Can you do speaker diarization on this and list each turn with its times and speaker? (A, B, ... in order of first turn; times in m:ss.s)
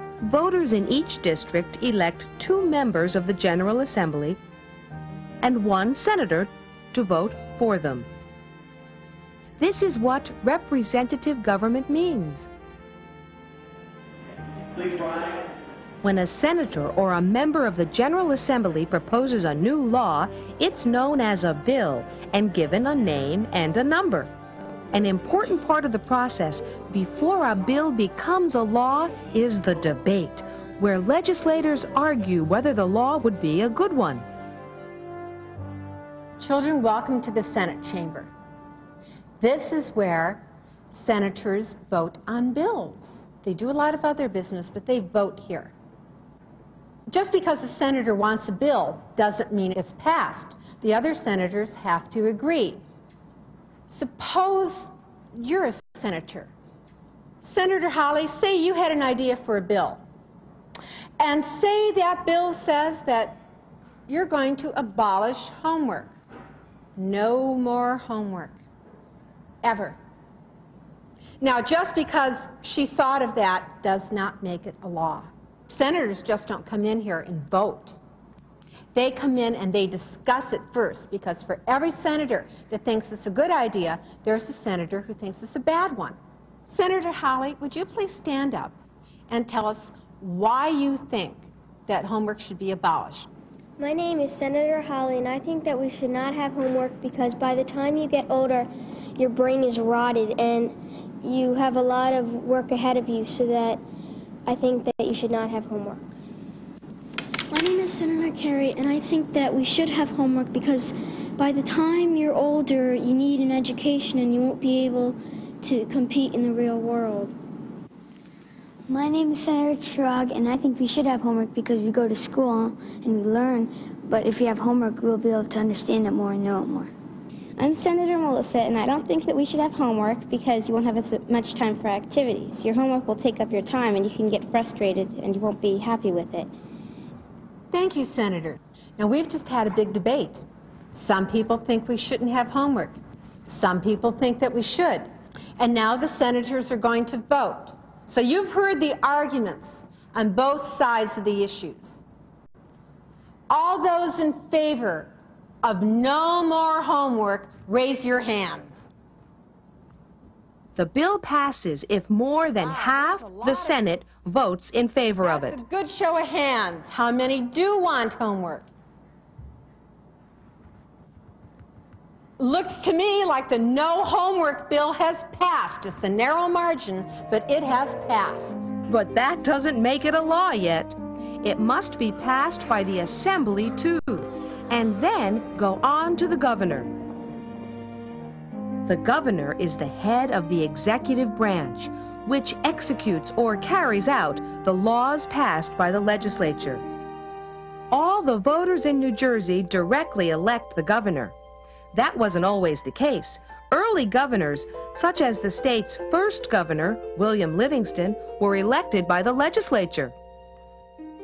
0:00.2-0:04.4 A
0:05.4-0:08.1 A
0:09.6-0:12.5 A
0:16.0-0:24.3 A
0:24.9-0:34.2 A
0:36.4-0:38.3 B
0:39.4-0:45.7 B
0:47.1-0:52.8 B
0:53.9-0:56.5 B
0:57.4-1:00.0 B
1:01.2-1:03.4 B
1:04.1-1:06.1 B
1:07.0-1:08.6 B
1:09.6-1:10.0 B
1:11.4-1:18.0 B
1:18.9-1:28.8 B
1:29.3-1:33.3 B
1:33.8-1:43.8 C
1:44.5-1:46.2 C
1:47.5-1:57.3 D
1:58.9-2:06.9 E
2:07.6-2:16.5 F
2:17.7-2:32.0 B
2:33.5-2:35.1 B
2:35.6-2:38.9 B
2:40.8-2:45.6 A
2:42.4-2:43.9 B
2:45.2-2:48.7 B
2:52.4-2:58.7 B
2:58.9-3:06.9 A
3:08.8-3:16.8 A
3:17.9-3:21.4 A
3:21.9-3:30.1 A